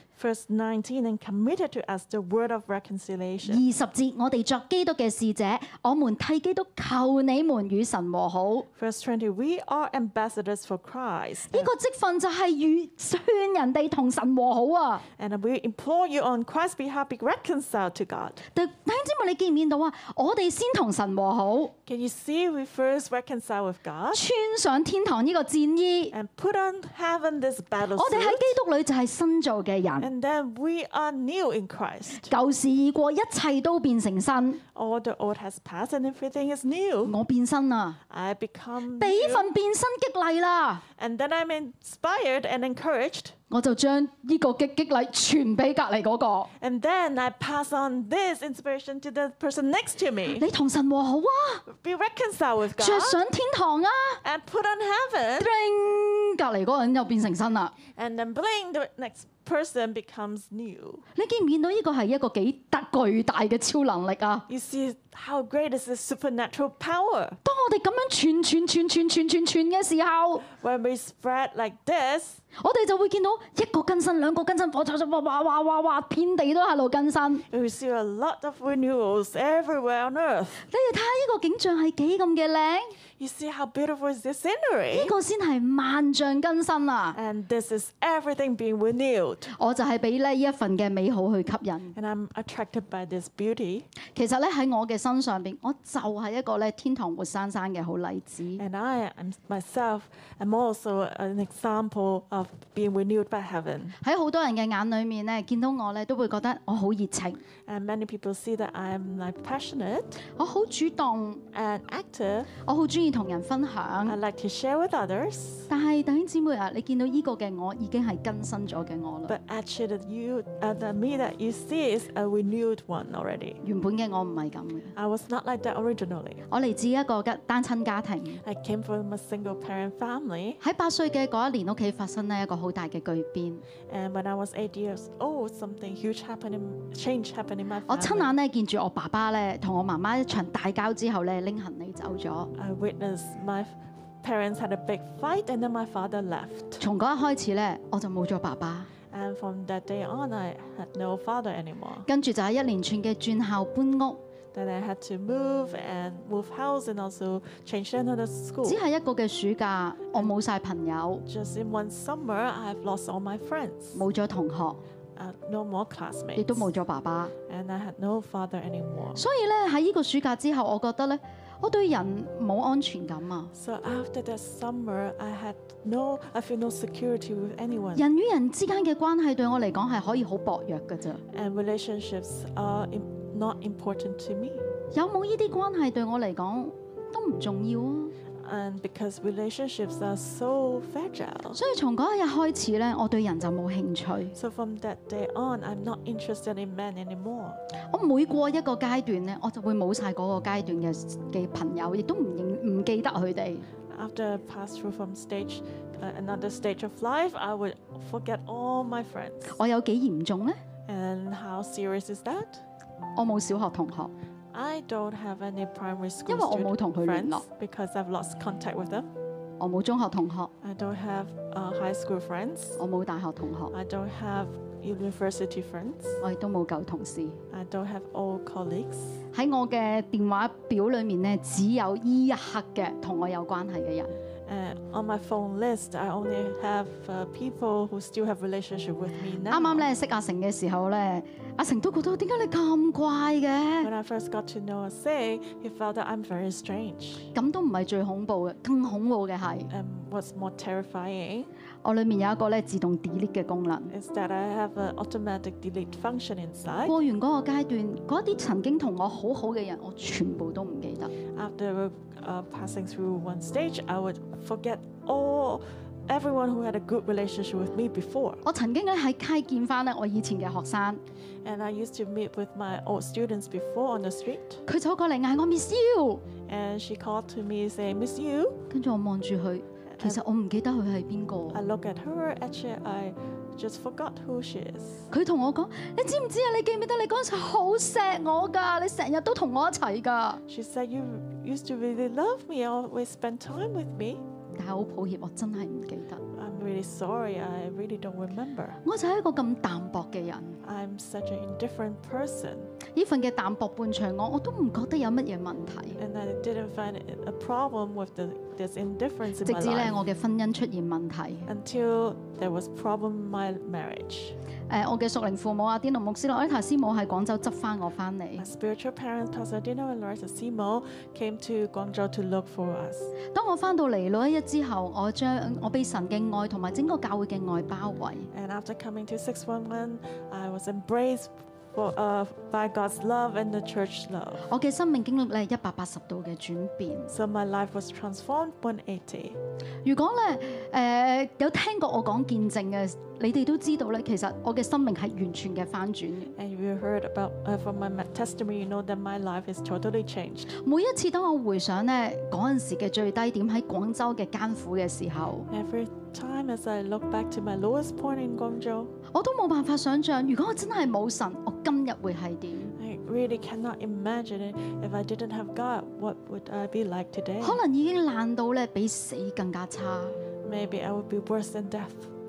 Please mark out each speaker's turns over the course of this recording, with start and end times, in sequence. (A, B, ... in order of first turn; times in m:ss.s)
0:00.2-0:03.6 A
0:03.5-0:08.7 B
0:08.8-0:11.7 A
0:11.5-0:15.0 B
0:15.2-0:18.4 A
0:18.5-0:21.7 B
0:21.8-0:24.2 A
0:24.1-0:26.1 B
0:26.1-0:28.6 A
0:28.0-0:30.1 B
0:30.0-0:32.3 A
0:32.3-0:34.6 B
0:34.8-0:37.1 A
0:37.0-0:38.0 B
0:38.1-0:39.5 A
0:39.0-0:40.8 B
0:41.0-0:43.3 A
0:43.5-0:46.5 B
0:46.6-0:50.4 A
0:50.4-0:51.6 B
0:51.7-0:53.2 A
0:52.8-0:54.2 B
0:54.2-0:55.5 A
0:55.4-0:57.7 B
0:58.0-1:01.0 A
1:01.2-1:04.4 B
1:04.5-1:07.4 A
1:07.4-1:10.4 B
1:10.5-1:12.4 A
1:12.6-1:17.4 B
1:17.5-1:20.6 A
1:20.7-1:23.0 B
1:23.2-1:25.1 A
1:24.9-1:27.2 B
1:27.1-1:29.5 A
1:29.6-1:31.9 B
1:32.0-1:33.9 A
1:34.1-1:38.6 B
1:38.6-1:44.0 A
1:44.0-1:47.4 B
1:47.7-1:50.2 A
1:50.4-1:51.4 B
1:51.5-1:52.5 A
1:52.6-1:54.2 B
1:54.1-1:55.7 A
1:55.7-1:59.3 B
1:59.3-2:03.6 A
2:03.6-2:04.9 B
2:04.9-2:06.4 A
2:06.5-2:08.4 B
2:08.4-2:10.6 A
2:10.6-2:13.6 B
2:13.9-2:18.3 A
2:17.9-2:22.5 B
2:22.6-2:26.8 A
2:26.8-2:28.9 B
2:29.1-2:32.1 A
2:32.1-2:34.2 B
2:34.5-2:38.8 A
2:38.6-2:41.2 B
2:41.2-2:44.0 A
2:43.9-2:44.8 B
2:45.2-2:46.6 A
2:46.4-2:47.3 B
2:47.5-2:49.2 A
2:49.2-2:53.5 B
2:53.5-2:58.0 A
2:57.9-3:01.2 B
3:01.3-3:04.6 A
3:04.9-3:08.1 B
3:08.4-3:11.6 A
3:11.6-3:14.3 B
3:14.4-3:17.6 A
3:17.9-3:23.6 B
3:23.9-3:29.6 A
3:29.5-3:30.6 B
3:30.9-3:32.6 A
3:33.2-3:34.1 B
3:34.5-3:39.1 A
3:36.3-3:37.4 B
3:39.6-3:40.5 B
3:40.6-3:42.8 A
3:42.8-3:43.7 B
3:43.7-3:46.2 A
3:46.2-3:47.4 B
3:47.5-3:49.2 A
3:49.3-3:54.1 B
3:54.5-3:59.8 A
3:59.5-4:03.9 B
4:03.8-4:07.3 A
4:07.3-4:09.7 B
4:09.7-4:11.5 A
4:11.8-4:13.9 B
4:13.9-4:16.9 A
4:16.8-4:21.1 B
4:21.3-4:28.4 A
4:28.4-4:31.0 B
4:31.4-4:34.6 A
4:34.6-4:36.2 B
4:36.4-4:38.6 A
4:38.7-4:41.6 B
4:39.9-4:40.2 A
4:41.5-4:45.1 A
4:45.1-4:50.4 B
4:50.5-4:54.2 A
4:54.6-4:56.2 B
4:56.3-4:58.8 A
4:58.8-5:00.6 B
5:00.6-5:02.7 A
5:02.9-5:06.0 B
5:06.0-5:10.0 A
5:09.4-5:11.5 B
5:11.5-5:14.3 A
5:14.7-5:18.5 B
5:18.4-5:23.1 A
5:23.3-5:28.3 B
5:28.3-5:34.4 A
5:34.5-5:37.1 B
5:37.1-5:39.4 A
5:39.8-5:46.3 B
5:46.4-5:50.5 A
5:50.6-5:55.5 B
5:55.5-5:58.9 A
5:59.1-6:02.7 B
6:02.8-6:07.6 A
6:07.4-6:10.2 B
6:10.4-6:12.1 A